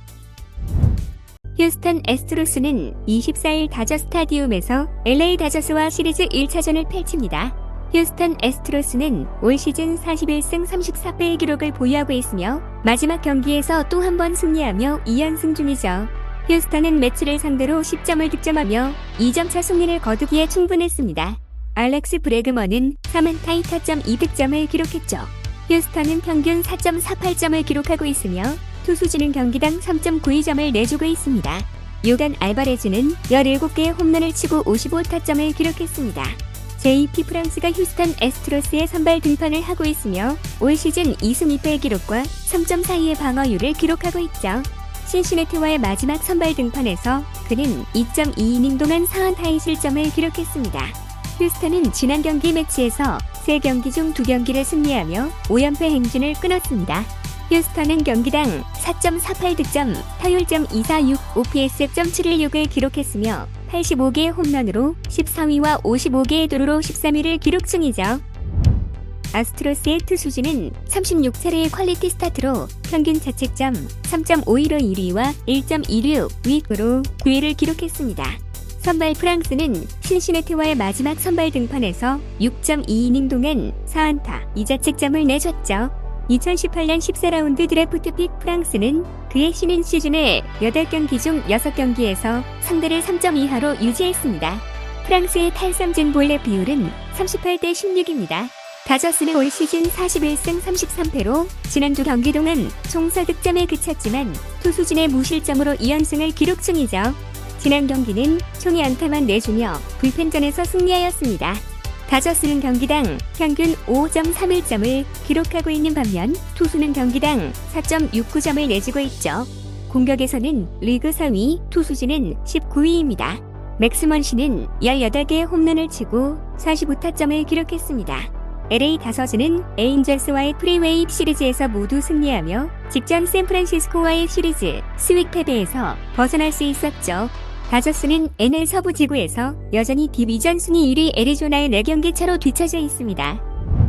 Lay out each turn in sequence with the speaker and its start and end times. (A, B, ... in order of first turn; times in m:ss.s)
0:01.6-1:08.2 A
1:09.3-2:23.4 A